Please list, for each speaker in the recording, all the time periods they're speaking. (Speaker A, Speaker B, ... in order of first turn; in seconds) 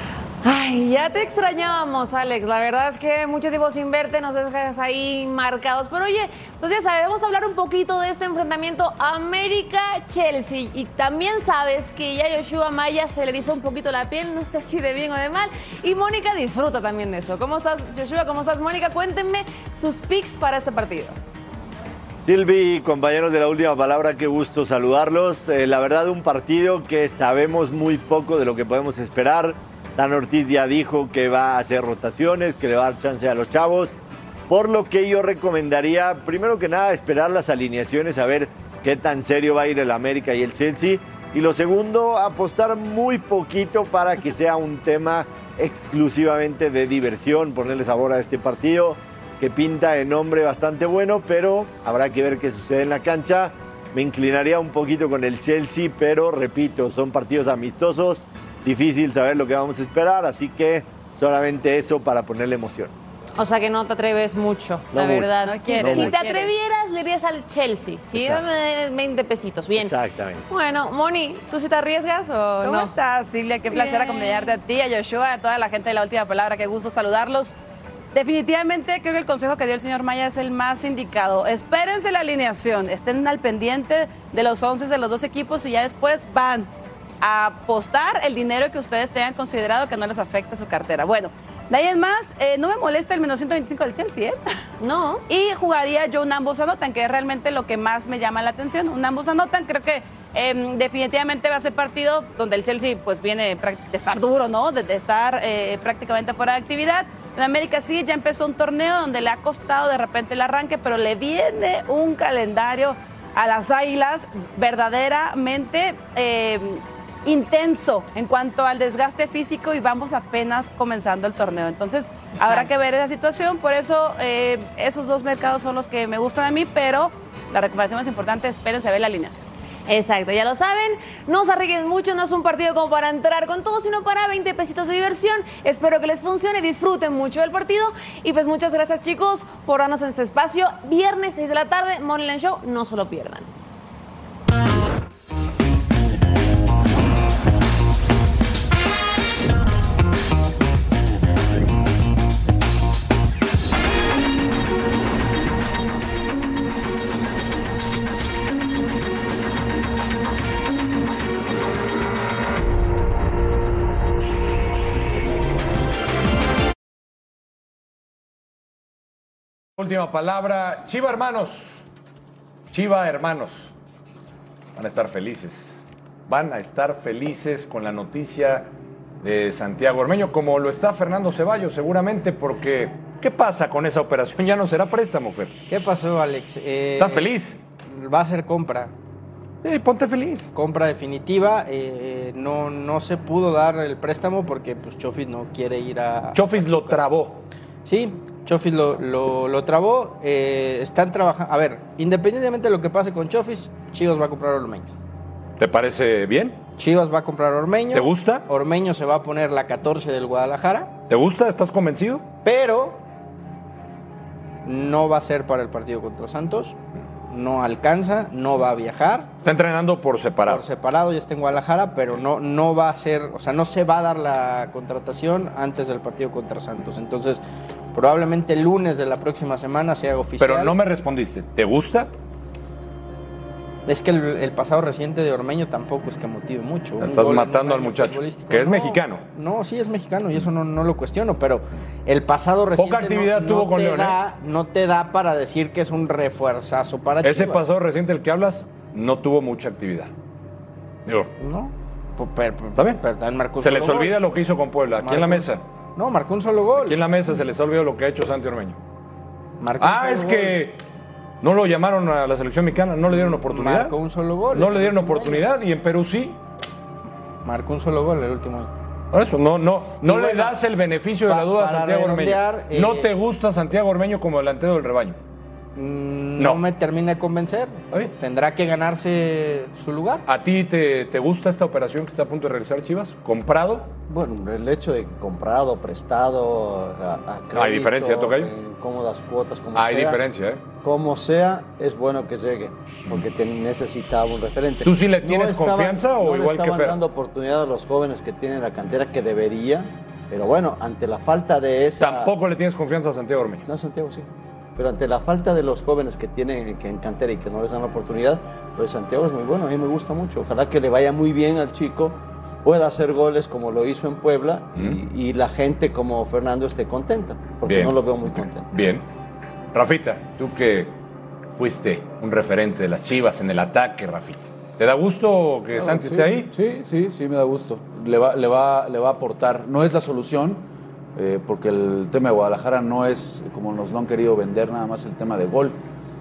Speaker A: 0.4-21.1, 63.4-69.9, 70.5-72.9, 73.7-74.5, 94.8-95.2, 129.9-143.5
Speaker B: 22.2-33.9, 34.5-62.9, 64.9-66.2, 68.1-68.4, 69.8-70.5
Speaker C: 65.4-66.5, 72.6-77.5, 78.1-86.7, 87.2-94.4, 95.3-129.4
Speaker D: 169.8-171.8, 172.7-173.7, 174.8-178.7, 179.2-185.5, 187.0-187.6, 189.6-190.5, 196.3-197.4, 205.6-206.6, 207.9-208.4, 211.1-212.2, 219.4-220.6, 230.4-232.1, 237.0-239.2, 242.8-244.2, 247.2-250.1, 251.1-251.3, 253.6-255.6, 256.8-258.8, 259.8-260.8, 261.4-263.9, 264.5-266.4, 269.1-275.2, 280.2-283.9, 287.6-288.5, 289.7-290.6, 294.8-297.0, 302.0-303.6, 317.6-319.0, 319.7-320.9, 321.6-326.5
Speaker E: 185.7-187.3, 187.8-188.9, 190.5-197.0, 197.8-204.9, 206.8-210.9, 212.4-213.0, 214.6-216.8, 217.3-219.3, 220.4-227.4, 227.9-230.7, 233.9-247.6, 251.4-254.2, 255.0-257.0, 259.6-260.6, 263.1-265.4, 267.4-268.7, 270.0-270.6, 271.3-273.1, 275.8-280.2
Speaker F: 284.1-290.2, 290.8-302.3, 303.7-318.7
Speaker G: 325.8-335.8